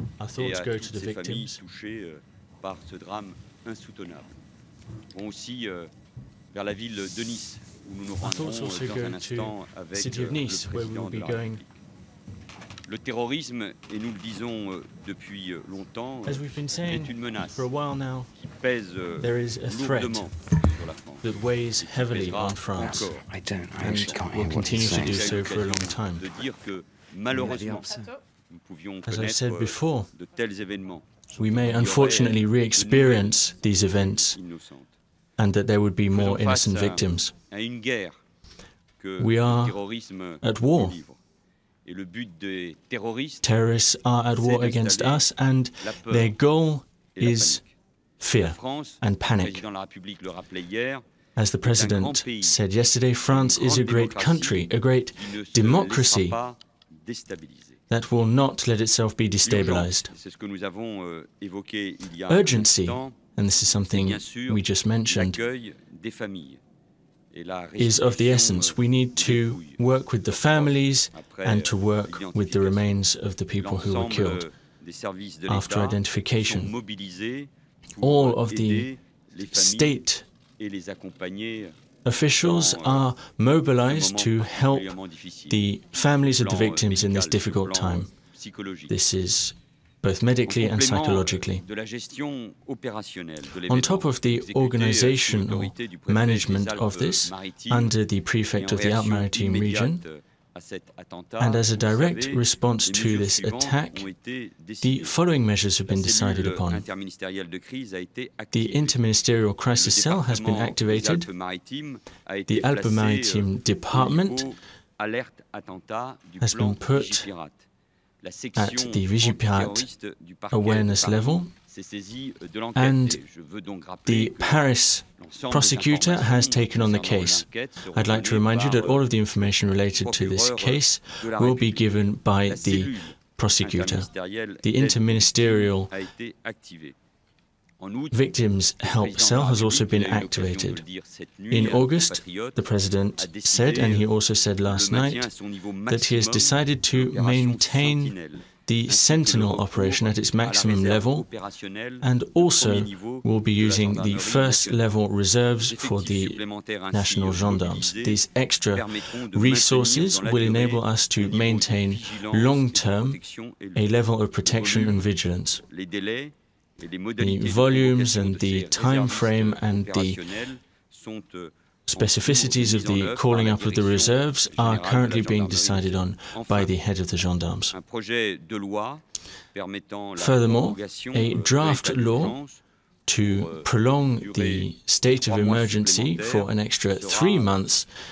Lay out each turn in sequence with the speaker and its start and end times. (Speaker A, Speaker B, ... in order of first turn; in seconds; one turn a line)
Speaker A: 0.2-1.6
Speaker B: 0.4-4.3
Speaker B: 5.1-5.9
Speaker B: 6.5-11.7
Speaker A: 8.2-11.6
Speaker B: 12.8-17.7
Speaker A: 16.2-18.3
Speaker B: 18.4-23.3
Speaker A: 19.2-20.3
Speaker A: 21.2-23.1
Speaker C: 22.8-25.4
Speaker A: 23.8-26.2
Speaker B: 23.9-34.9
Speaker C: 27.3-28.1
Speaker A: 29.1-30.1
Speaker A: 31.3-34.4
Speaker A: 35.4-37.3
Speaker B: 36.1-38.2
Speaker B: 39.0-41.2
Speaker A: 39.2-39.8
Speaker A: 40.4-41.0
Speaker B: 41.8-43.5
Speaker A: 43.4-47.6
Speaker B: 44.3-45.3
Speaker B: 45.8-46.3
Speaker B: 47.1-47.7
Speaker A: 48.2-49.6
Speaker B: 48.4-51.0
Speaker A: 51.4-56.4
Speaker B: 51.6-52.6
Speaker B: 53.3-57.8
Speaker A: 57.9-60.1
Speaker B: 59.4-63.2
Speaker A: 62.3-65.4
Speaker B: 63.9-66.6
Speaker B: 67.3-72.9
Speaker A: 67.8-74.5
Speaker B: 73.6-80.0
Speaker A: 75.5-76.7
Speaker A: 78.0-78.9
Speaker A: 79.5-80.3
Speaker B: 80.6-81.7
Speaker A: 82.0-85.0
Speaker B: 82.4-83.0
Speaker B: 83.8-85.6
Speaker A: 85.5-88.1
Speaker B: 86.3-89.0
Speaker A: 88.9-91.6
Speaker B: 90.4-97.9
Speaker A: 93.5-100.0
Speaker B: 98.5-105.1
Speaker A: 101.4-104.1
Speaker A: 104.8-106.9
Speaker B: 105.9-109.0
Speaker A: 108.5-111.3
Speaker B: 109.7-117.7
Speaker A: 112.5-114.5
Speaker A: 116.4-117.3
Speaker B: 118.2-129.3
Speaker A: 118.5-119.9
Speaker A: 120.5-121.5
Speaker A: 122.8-123.2
Speaker A: 124.0-134.1
Speaker B: 129.9-131.9
Speaker B: 132.4-136.9
Speaker A: 134.6-135.9
Speaker B: 137.8-142.6
Speaker A: 138.1-140.8
Speaker A: 141.5-145.3
Speaker B: 143.2-144.1
Speaker B: 144.6-154.9
Speaker A: 145.9-151.2
Speaker A: 152.0-163.2
Speaker B: 155.6-163.9
Speaker A: 163.7-165.6
Speaker B: 164.4-165.1
Speaker B: 165.6-176.7
Speaker A: 167.2-170.2
Speaker A: 171.9-177.8
Speaker B: 177.7-182.6
Speaker A: 180.2-182.4
Speaker A: 183.1-187.9
Speaker B: 183.2-187.5